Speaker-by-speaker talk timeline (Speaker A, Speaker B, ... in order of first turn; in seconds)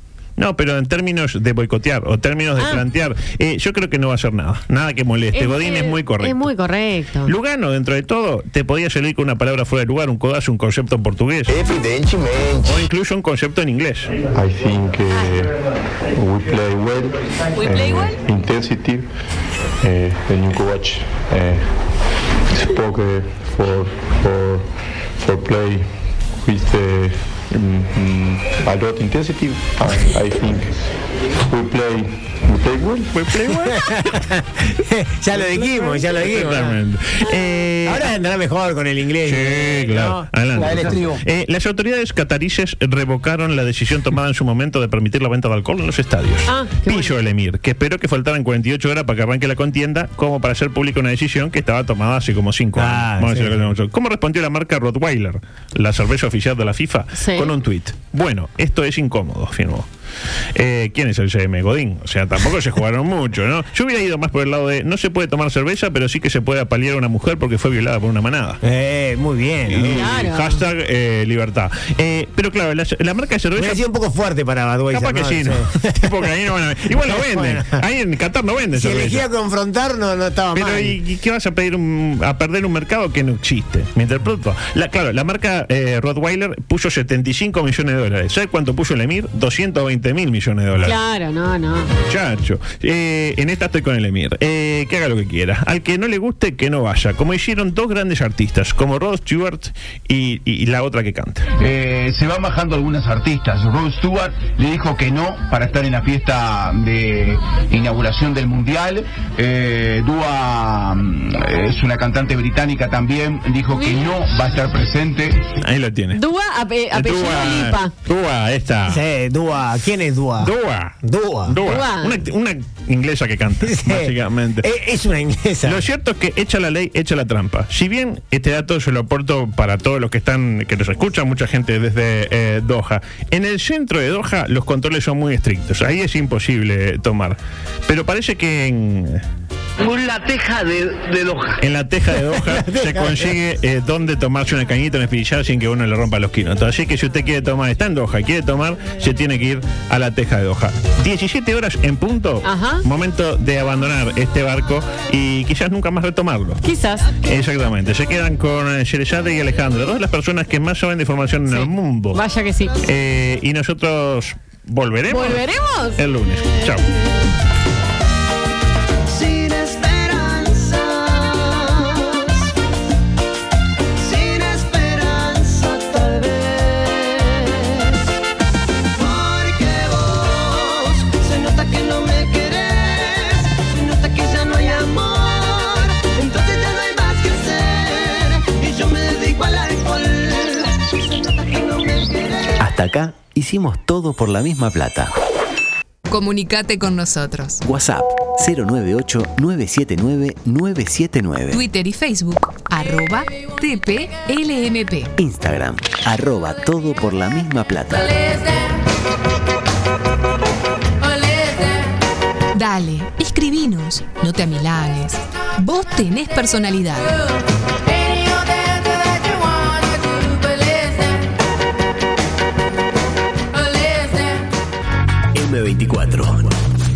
Speaker A: 0.4-6.5, 7.2-11.6, 12.6-14.2, 33.1-34.1, 35.7-38.1, 39.2-59.9, 60.5-68.6, 69.7-73.8, 74.9-79.2, 80.5-91.0, 92.1-101.5, 115.6-116.2, 116.9-119.0, 120.4-124.7, 125.6-139.2, 141.6-156.6, 157.2-162.2, 162.8-165.4, 165.9-166.9
Speaker B: 2.6-2.8, 5.3-7.3, 17.6-18.1, 46.5-47.1, 57.1-57.5, 69.9-70.6, 90.8-91.9, 113.7-114.1, 116.1-117.9, 121.6-122.2, 152.4-152.8, 156.6-157.1, 161.5-162.8, 165.1-166.0
Speaker C: 11.5-12.8, 139.8-141.5
Speaker D: 14.3-19.1, 19.8-21.7, 22.5-30.8, 31.4-33.3
Speaker E: 33.9-36.7, 37.8-41.0, 52.8-53.7, 68.6-70.2, 73.5-76.2, 76.8-77.8, 78.7-81.0, 118.9-121.6, 123.6-125.8, 142.3-143.3
Speaker F: 101.6-115.5
Speaker G: 169.3-170.8, 174.2-175.1, 176.0-176.3, 179.3-179.7, 181.4-182.6, 184.1-185.2, 186.3-187.3, 189.1-190.0
Speaker H: 192.6-195.1, 197.6-201.6, 205.2-208.3, 225.3-226.5
Speaker I: 196.1-197.6, 201.5-205.1, 212.5-217.2